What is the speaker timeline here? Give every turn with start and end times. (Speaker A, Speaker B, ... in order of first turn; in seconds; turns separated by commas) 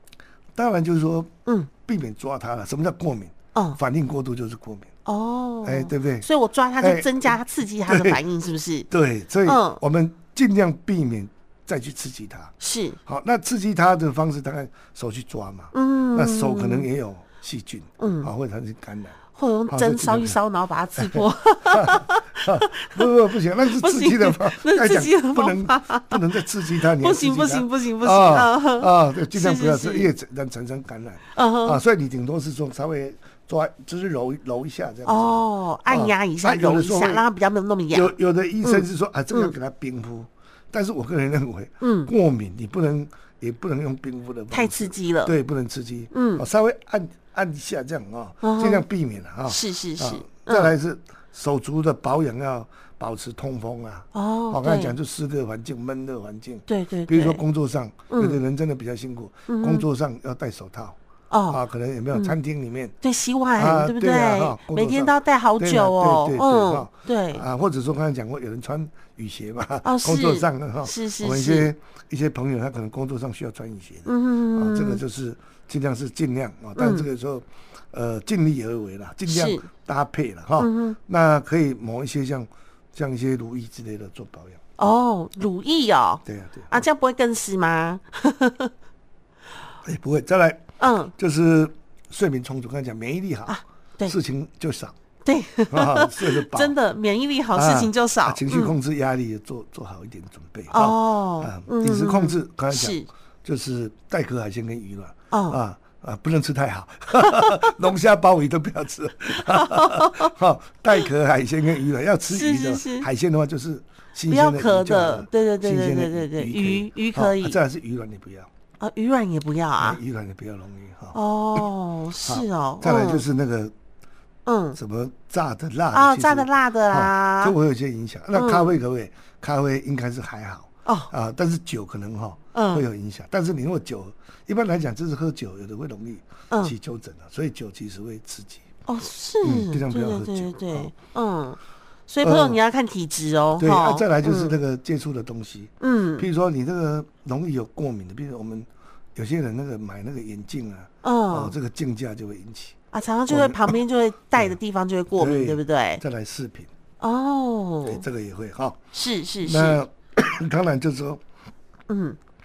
Speaker A: 0.6-1.3, Speaker A: 1.9-4.9, Speaker B: 3.5-3.8, Speaker B: 5.1-8.9, Speaker A: 5.6-6.3, Speaker A: 6.8-7.4, Speaker A: 7.9-8.2, Speaker A: 8.9-12.5, Speaker B: 9.4-9.8, Speaker B: 12.6-13.0, Speaker A: 13.1-20.4, Speaker B: 15.7-16.9, Speaker B: 18.0-18.3, Speaker B: 19.3-23.1, Speaker A: 21.0-37.2, Speaker B: 23.6-30.1, Speaker B: 31.4-31.8, Speaker B: 35.1-39.5, Speaker A: 37.9-61.0, Speaker B: 41.8-42.1, Speaker B: 44.5-45.4, Speaker B: 46.1-46.4, Speaker B: 48.4-48.8, Speaker B: 49.5-50.7, Speaker B: 54.1-55.0, Speaker B: 56.7-57.4, Speaker B: 58.1-58.4, Speaker B: 59.5-59.9, Speaker B: 61.3-61.6, Speaker A: 61.5-62.9, Speaker B: 63.0-67.5, Speaker A: 63.6-84.6, Speaker B: 69.8-71.7, Speaker B: 74.1-75.0, Speaker B: 76.8-77.1, Speaker B: 79.3-79.7, Speaker B: 80.6-81.0, Speaker B: 84.8-88.7, Speaker A: 86.2-86.7, Speaker A: 89.8-90.6, Speaker B: 90.8-91.1, Speaker A: 91.2-95.0, Speaker B: 93.5-94.1, Speaker B: 95.2-98.8, Speaker A: 95.7-96.8, Speaker A: 97.5-118.5, Speaker B: 100.7-103.1, Speaker B: 105.3-105.6, Speaker B: 107.2-107.5, Speaker B: 109.5-110.3, Speaker B: 112.3-113.1, Speaker B: 114.3-117.6, Speaker B: 118.8-120.0, Speaker A: 119.8-121.6, Speaker B: 121.1-123.2, Speaker A: 122.2-123.7, Speaker B: 124.5-124.8, Speaker A: 124.8-138.7, Speaker B: 125.9-127.5, Speaker B: 128.3-128.7, Speaker B: 130.9-131.1, Speaker B: 132.5-132.8, Speaker B: 138.9-144.6, Speaker A: 139.4-140.9, Speaker A: 142.2-142.6, Speaker A: 143.6-152.8, Speaker B: 145.8-146.3, Speaker B: 151.0-151.6, Speaker B: 152.9-156.0, Speaker A: 153.3-153.8, Speaker A: 155.2-156.7, Speaker B: 157.0-158.0, Speaker A: 157.9-158.8, Speaker B: 158.9-159.8, Speaker A: 159.4-161.2, Speaker B: 161.9-162.2